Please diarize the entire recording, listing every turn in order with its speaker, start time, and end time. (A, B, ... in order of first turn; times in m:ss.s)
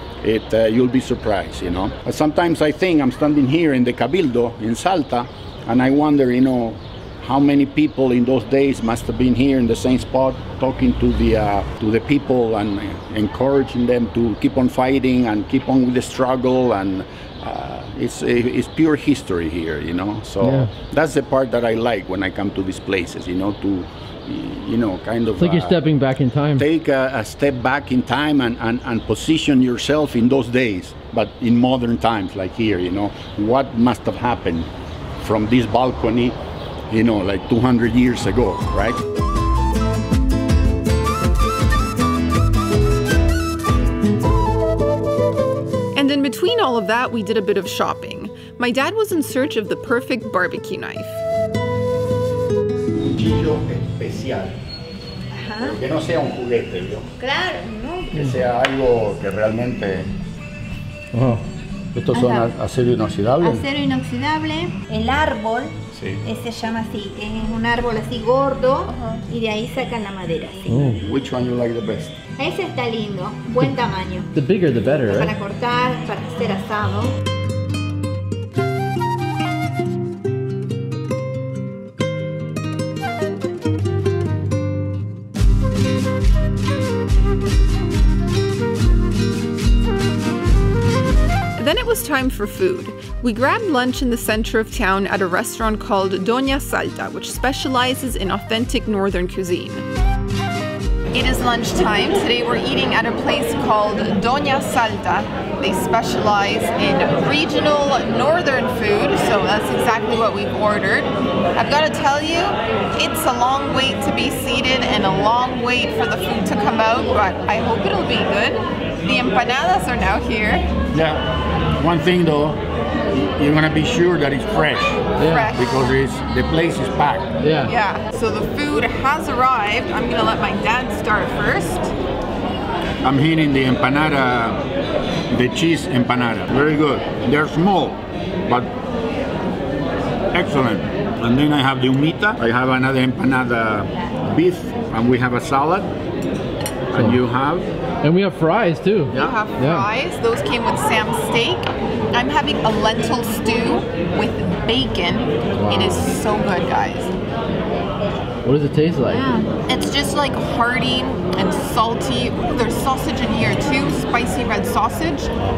0:00.2-0:25.8 A
0:20.4-0:20.7 B
0:25.4-0:26.6 B
0:26.6-0:36.4 A
0:36.9-0:39.0 A
0:45.9-0:51.2 C
0:52.9-0:54.6 A
0:55.3-0:55.8 D
0:55.6-0:57.1 A
0:57.2-0:58.1 D
0:58.1-1:00.1 A
1:01.1-1:01.4 B
1:01.9-1:03.6 A
1:02.1-1:02.5 D
1:03.4-1:10.9 D
1:05.9-1:06.2 A
1:08.9-1:09.2 C
1:10.7-1:11.0 B
1:11.0-1:12.2 A
1:12.4-1:14.3 D
1:14.3-1:15.3 B
1:15.1-1:17.2 D
1:31.6-1:39.8 C
1:41.1-2:00.7 C
2:00.9-2:02.6 A
2:03.2-2:07.3 A
2:05.2-2:05.5 B
2:05.2-2:05.8 C
2:07.4-2:07.7 B
2:07.7-2:11.9 C
2:13.0-2:14.6 A
2:15.3-2:18.7 A
2:20.3-2:25.9 A
2:26.9-2:27.7 A
2:26.9-2:27.2 B
2:28.0-2:29.9 B
2:29.1-2:37.1 C
2:35.6-2:36.1 B
2:38.4-2:39.2 B
2:39.1-2:45.3 C